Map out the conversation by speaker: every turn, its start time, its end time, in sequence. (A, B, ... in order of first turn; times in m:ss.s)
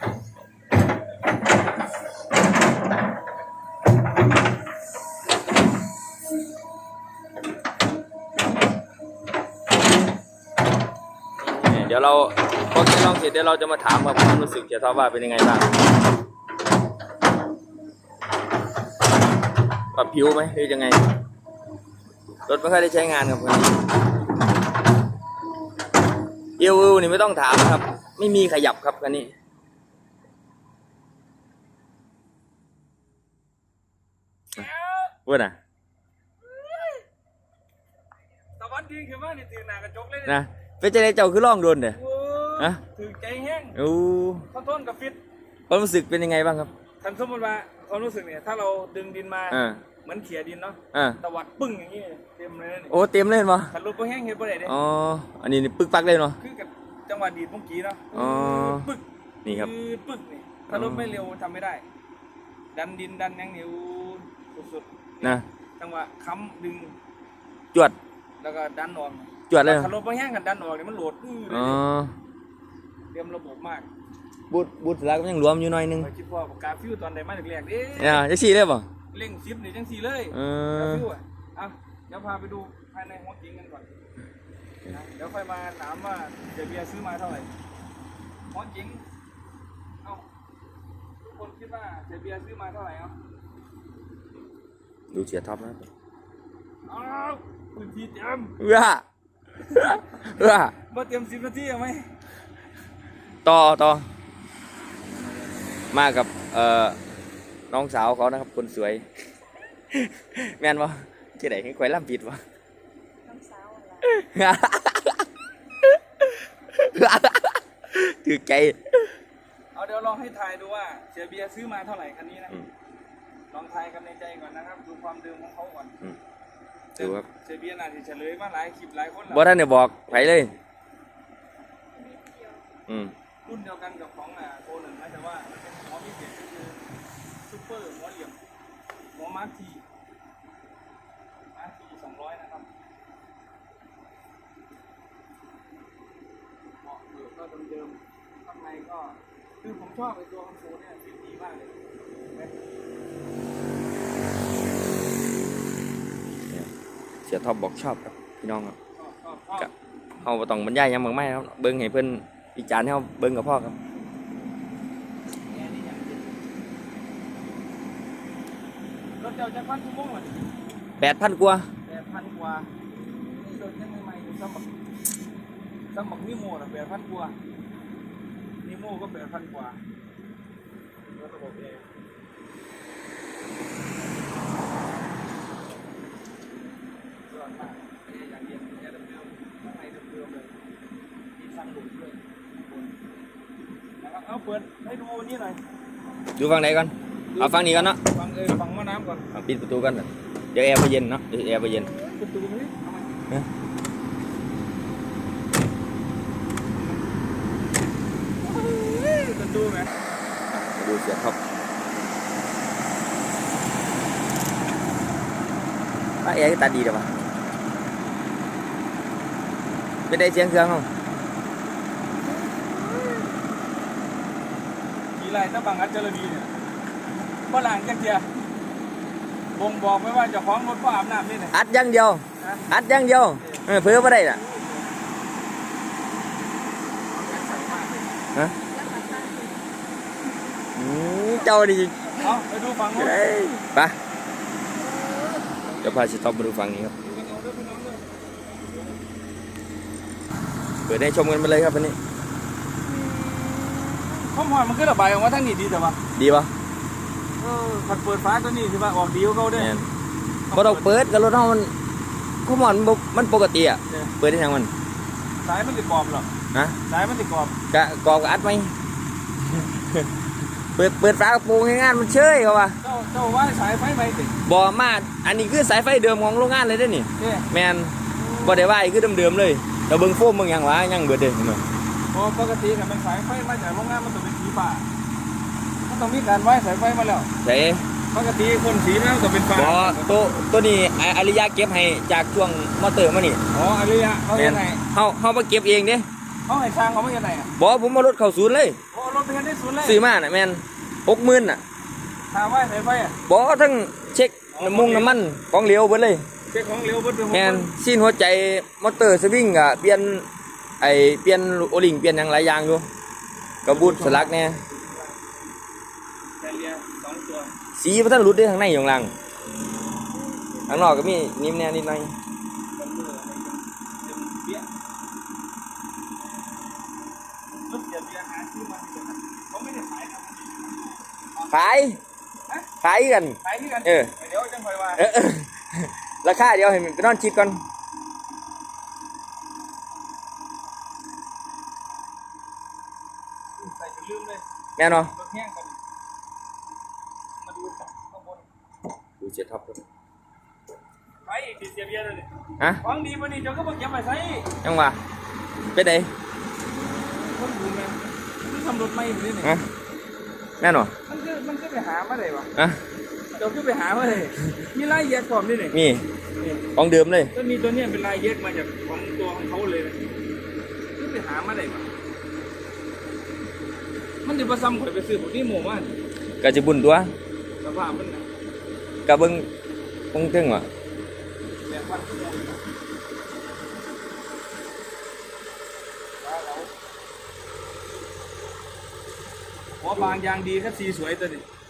0:11.5-0:15.7 A
0:19.9-0:21.0 A
0:22.5-0:23.8 A
0:26.6-0:29.3 A
0:34.5-0:35.2 B
0:35.3-0:35.6 A
0:36.4-0:37.0 B
0:38.6-0:40.4 B
0:40.3-0:42.0 A
0:41.9-0:43.8 B
0:43.8-0:44.5 A
0:44.5-0:45.2 B
0:45.7-0:46.7 A
0:47.0-0:53.0 B
0:49.5-0:49.8 A
0:50.9-0:51.2 A
0:52.9-0:53.7 A
0:53.7-0:54.7 B
0:54.7-0:56.4 A
0:56.4-1:01.8 B
0:58.1-0:58.9 A
1:00.7-1:01.2 A
1:02.7-1:07.0 B
1:08.4-1:11.8 B
1:09.5-1:09.9 A
1:11.5-1:12.1 A
1:13.1-1:13.9 B
1:14.5-1:16.1 A
1:16.0-1:18.3 B
1:18.0-1:18.9 A
1:19.1-1:23.9 B
1:20.3-1:21.0 A
1:24.9-1:27.5 B
1:28.5-1:29.0 B
1:31.2-1:33.1 B
1:35.1-1:35.9 A
1:36.9-1:38.6 B
1:38.6-1:39.0 A
1:39.7-1:40.7 A
1:40.9-1:42.1 B
1:43.4-1:44.1 A
1:45.9-1:47.0 A
1:47.7-1:49.1 A
1:49.9-1:52.4 A
1:53.2-1:54.2 C
1:54.0-1:55.3 A
1:55.8-1:59.1 A
1:59.8-2:02.6 B
2:03.5-2:06.0 B
2:07.0-2:07.3 A
2:07.0-2:09.5 B
2:09.3-2:10.5 A
2:12.0-2:12.6 C
2:12.9-2:13.1 A
2:13.4-2:16.8 B
2:17.4-2:18.4 B
2:19.2-2:19.8 B
2:21.5-2:22.7 B
2:26.8-2:31.8 B
2:37.3-2:38.8 A
2:39.0-2:39.7 B
2:40.2-2:43.8 A
2:45.5-2:46.4 B
2:49.2-2:50.4 B
2:51.0-2:51.7 A
2:51.9-2:54.7 B
2:55.9-2:57.4 B
2:58.6-2:59.8 B
3:01.1-3:01.8 B
3:07.3-3:10.6 B
3:11.4-3:13.0 B
3:14.0-3:15.6 B
3:16.4-3:18.0 A
3:17.3-3:19.3 B
3:19.3-3:21.9 A
3:22.1-3:23.1 B
3:28.4-3:29.9 B
3:30.8-3:31.4 A
3:36.2-3:37.1 A
3:40.1-3:40.9 A
3:42.5-3:43.3 B
3:45.2-3:46.5 B
3:47.5-3:48.3 B
3:49.6-3:51.6 B
3:51.5-3:54.4 A
3:52.4-3:52.6 B
3:53.4-3:55.0 B
3:57.1-3:58.1 B
3:58.7-3:59.6 C
3:58.8-3:59.4 B
4:00.8-4:02.3 A
4:02.2-4:03.3 B
4:03.0-4:04.0 A
4:05.5-4:06.0 B
4:05.8-4:06.9 A
4:07.0-4:09.0 B
4:10.9-4:12.0 A
4:12.8-4:16.0 B
4:16.2-4:16.5 A
4:17.4-4:19.7 B
4:19.6-4:19.9 A
4:20.5-4:21.0 B
4:20.5-4:21.7 A
4:22.4-4:24.7 A
4:25.4-4:26.3 B
4:26.5-4:26.8 A
4:26.9-4:27.6 B
4:27.7-4:28.7 A
4:29.5-4:30.1 A
4:30.8-4:32.8 A
4:32.8-4:34.4 B
4:34.4-4:41.6 A
4:37.2-4:37.5 B
4:38.2-4:38.7 B
4:42.1-4:44.9 B
4:45.9-4:47.3 B
4:47.4-4:47.9 A
4:48.1-4:50.2 B
4:49.6-4:53.4 A
4:53.5-4:54.8 B
4:54.4-4:56.1 A
4:56.5-4:57.5 B
4:57.6-4:58.8 A
4:58.9-5:00.0 B
4:59.8-5:01.6 A
5:02.3-5:03.2 B
5:03.3-5:06.2 A
5:04.5-5:05.2 B
5:06.5-5:07.7 B
5:07.3-5:10.3 A
5:10.8-5:12.9 A
5:13.6-5:14.6 A
5:13.7-5:15.2 B
5:16.4-5:17.5 B
5:17.8-5:19.1 A
5:20.2-5:21.0 B
5:20.7-5:22.1 A
5:22.8-5:24.7 B
5:27.6-5:31.8 B
5:31.5-5:32.0 A
5:32.8-5:34.1 A
5:33.4-5:35.0 B
5:35.0-5:37.6 A
5:43.6-5:44.4 B
5:44.8-5:45.1 A
5:45.1-5:45.8 B
5:47.4-5:48.5 B
5:49.2-5:49.8 A
5:51.3-5:52.3 B
5:52.8-5:54.5 B
5:54.6-5:55.0 A
5:55.7-5:56.1 A
5:56.8-5:59.6 B
6:00.6-6:00.9 A
6:01.1-6:02.5 B
6:03.3-6:05.8 B
6:05.7-6:06.1 A
6:06.4-6:06.6 B
6:06.7-6:07.3 A
6:07.3-6:10.0 B
6:11.0-6:11.9 B
6:14.2-6:15.9 B
6:16.4-6:17.1 A
6:17.6-6:18.2 B
6:19.1-6:19.5 A
6:20.1-6:20.7 A
6:21.7-6:22.6 B
6:26.2-6:26.8 B
6:29.8-6:31.4 B